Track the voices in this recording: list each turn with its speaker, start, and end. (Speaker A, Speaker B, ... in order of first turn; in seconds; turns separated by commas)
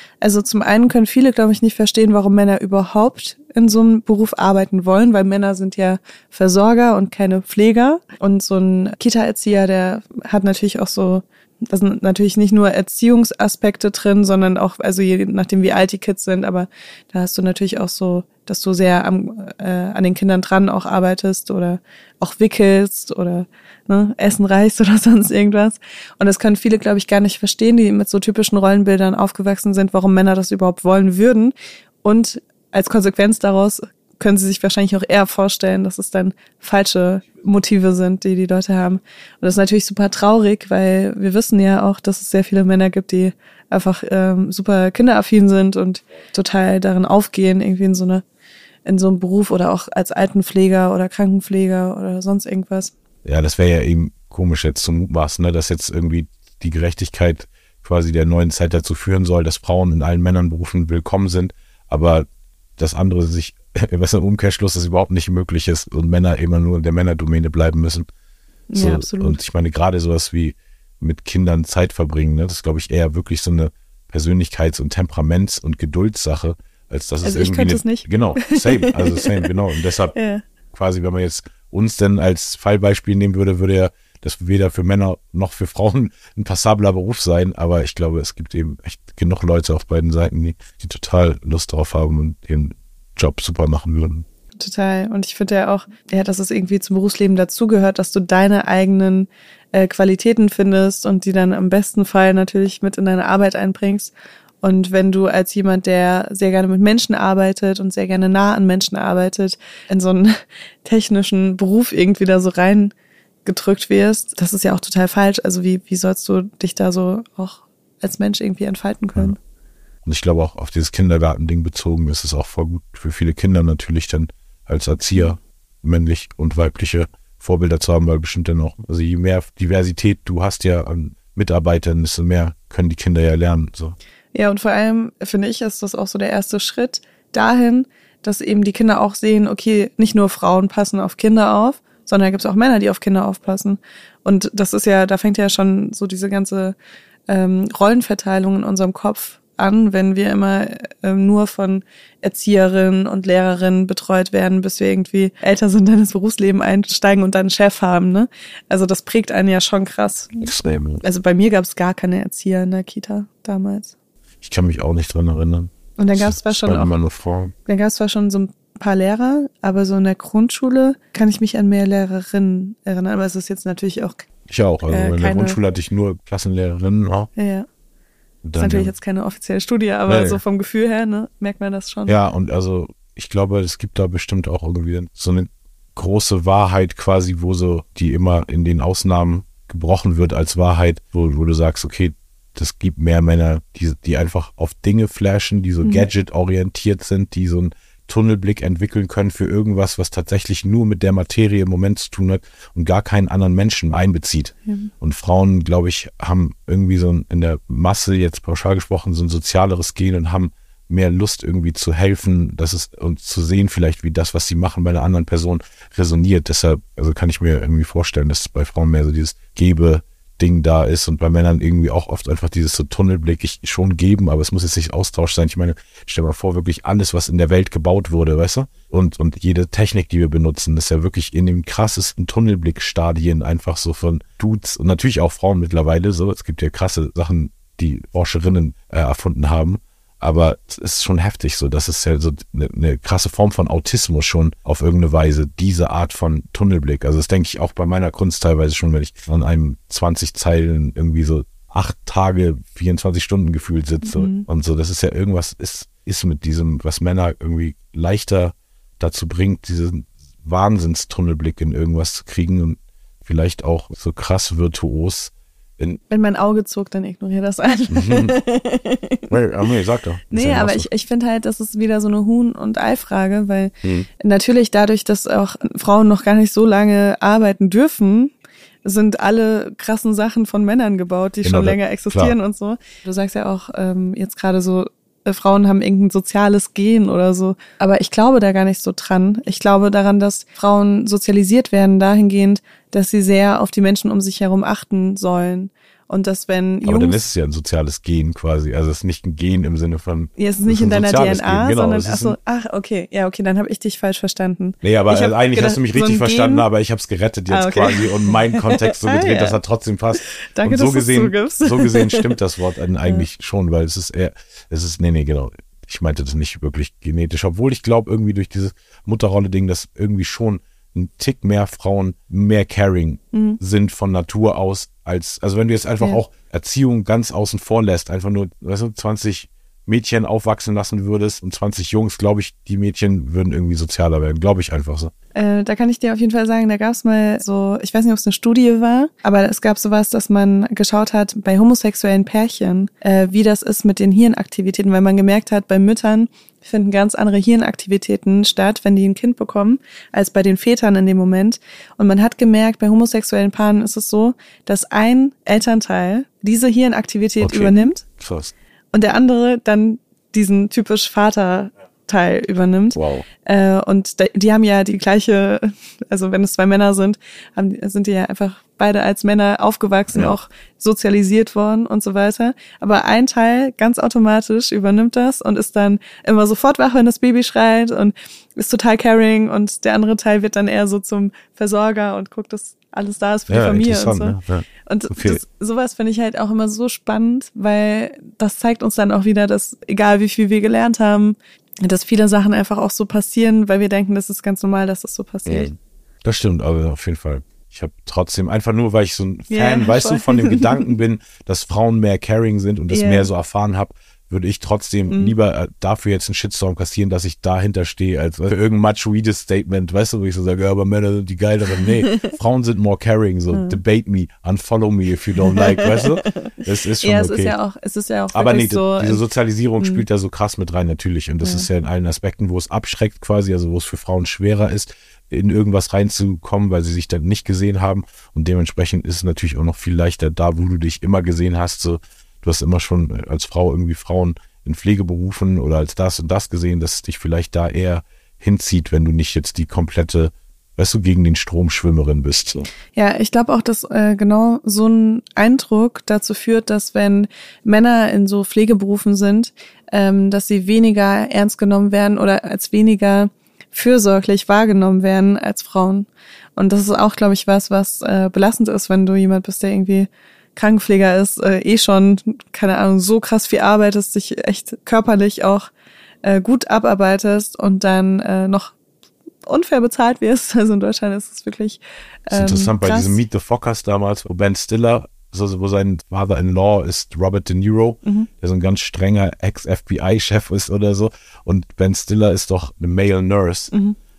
Speaker A: 0.2-48.2, Speaker A: 48.8-52.9, Speaker B: 53.2-62.3, Speaker B: 62.8-68.1, Speaker A: 68.7-69.4, Speaker B: 68.7-80.1, Speaker A: 77.2-79.5, Speaker A: 80.1-80.4, Speaker B: 80.7-94.2, Speaker A: 94.6-112.9, Speaker A: 113.4-119.4, Speaker B: 120.0-133.9, Speaker A: 134.3-146.8, Speaker A: 147.3-160.4, Speaker B: 160.4-161.0, Speaker A: 161.0-163.9, Speaker B: 164.4-167.5, Speaker A: 166.0-166.9, Speaker A: 167.7-174.3, Speaker B: 174.5-177.3, Speaker A: 174.9-175.6, Speaker A: 177.3-177.7, Speaker B: 178.4-178.9, Speaker A: 178.6-182.1, Speaker B: 180.1-180.4, Speaker B: 182.1-266.0, Speaker A: 195.8-196.1, Speaker A: 254.0-254.5, Speaker A: 266.1-269.3, Speaker B: 267.9-268.3, Speaker B: 269.3-270.9, Speaker A: 270.3-278.3, Speaker B: 273.8-274.1, Speaker A: 278.8-297.2, Speaker B: 281.4-282.4, Speaker B: 296.8-302.4, Speaker A: 300.4-306.6, Speaker B: 304.8-335.1, Speaker A: 307.5-309.6, Speaker A: 310.4-312.4, Speaker A: 323.3-323.6, Speaker A: 335.3-358.0, Speaker B: 357.4-358.5, Speaker A: 358.9-395.7, Speaker B: 362.9-363.2, Speaker B: 383.5-385.4, Speaker B: 395.4-417.5, Speaker A: 399.5-400.9, Speaker A: 402.9-403.3, Speaker A: 405.1-405.3, Speaker A: 413.5-413.8, Speaker A: 415.4-419.2, Speaker B: 418.3-442.7, Speaker A: 419.8-420.0, Speaker A: 421.4-421.7, Speaker A: 442.9-465.7, Speaker A: 466.2-468.7, Speaker A: 469.4-473.2, Speaker B: 472.3-483.7, Speaker A: 483.7-484.0